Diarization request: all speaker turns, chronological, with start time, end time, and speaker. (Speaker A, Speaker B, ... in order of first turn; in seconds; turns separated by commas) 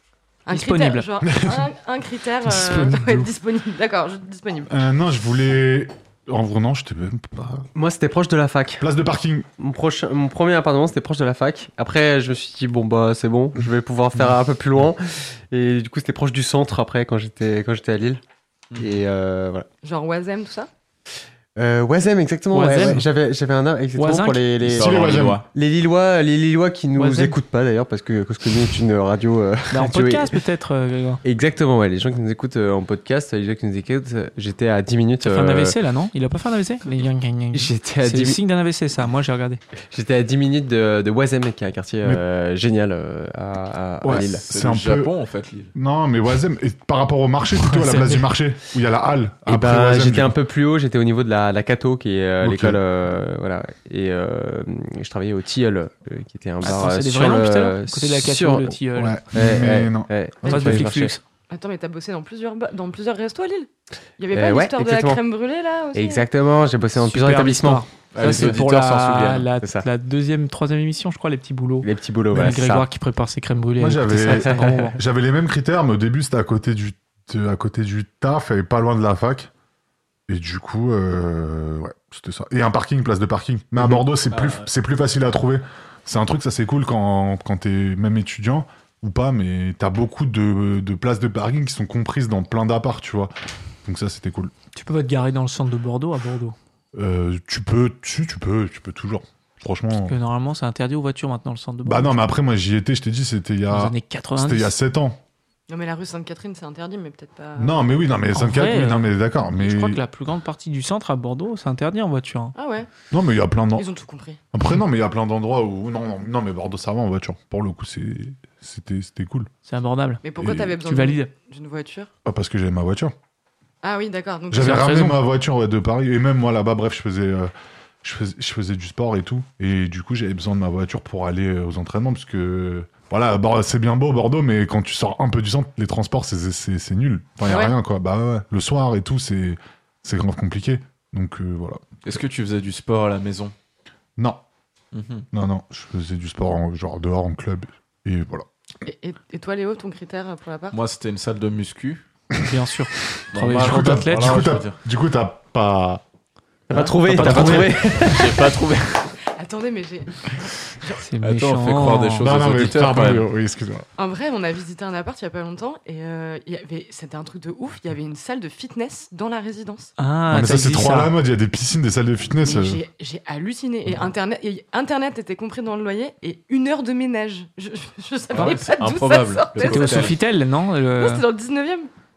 Speaker A: 0.5-4.7, Speaker B: 0.5-1.1, Speaker C: 1.2-1.7, Speaker C: 2.5-3.3, Speaker C: 4.7-7.7, Speaker D: 7.7-8.8, Speaker C: 8.8-9.5, Speaker D: 9.6-18.2, Speaker D: 18.8-19.7, Speaker A: 19.8-20.7, Speaker D: 21.6-30.4, Speaker B: 22.5-23.0, Speaker B: 23.9-24.4, Speaker E: 24.6-25.4, Speaker C: 24.7-25.4, Speaker B: 26.9-27.4, Speaker B: 29.7-31.2, Speaker D: 31.2-35.7, Speaker B: 35.2-39.6, Speaker D: 37.5-38.4, Speaker D: 39.9-44.4, Speaker C: 44.0-45.1, Speaker E: 44.1-45.7, Speaker C: 45.7-50.3, Speaker B: 47.6-48.2, Speaker D: 49.5-58.8, Speaker C: 52.4-52.8, Speaker B: 56.6-59.2, Speaker C: 58.9-60.8, Speaker D: 59.3-61.2, Speaker B: 60.4-61.2, Speaker A: 60.5-60.7, Speaker A: 61.5-66.3, Speaker D: 64.3-65.2, Speaker D: 65.9-67.8, Speaker B: 66.9-75.0, Speaker E: 68.1-69.5, Speaker D: 69.6-69.9, Speaker D: 71.8-72.9, Speaker C: 73.8-79.5, Speaker C: 80.3-93.3, Speaker E: 84.3-84.7, Speaker C: 93.8-94.5, Speaker B: 94.7-96.5, Speaker C: 96.9-100.1, Speaker B: 100.0-102.2, Speaker C: 101.8-105.2, Speaker B: 103.7-104.7, Speaker A: 105.7-107.9, Speaker C: 107.6-110.0, Speaker B: 108.3-112.5, Speaker A: 112.5-112.9, Speaker C: 113.1-113.9, Speaker A: 113.8-114.4, Speaker C: 114.5-119.5, Speaker B: 119.7-120.2, Speaker A: 120.2-122.1, Speaker C: 120.4-120.8, Speaker B: 120.8-121.3, Speaker C: 122.2-123.1, Speaker A: 123.8-125.1, Speaker C: 124.5-127.5, Speaker B: 124.6-125.2, Speaker C: 128.0-142.2, Speaker A: 137.5-137.7, Speaker E: 142.0-143.5, Speaker C: 144.2-144.4, Speaker E: 144.9-145.3, Speaker C: 145.3-148.5, Speaker A: 148.8-150.8, Speaker E: 150.7-152.0, Speaker B: 152.4-154.5, Speaker E: 153.3-154.8, Speaker C: 153.5-156.0, Speaker D: 156.7-158.6, Speaker E: 156.7-159.1, Speaker C: 157.0-157.8, Speaker A: 159.3-161.0, Speaker B: 161.0-162.3, Speaker E: 161.2-163.3, Speaker C: 162.2-163.8, Speaker A: 164.0-169.9, Speaker B: 170.0-171.1, Speaker C: 170.3-172.8, Speaker A: 172.4-180.2, Speaker E: 178.3-180.2, Speaker B: 179.6-181.2, Speaker A: 181.0-181.9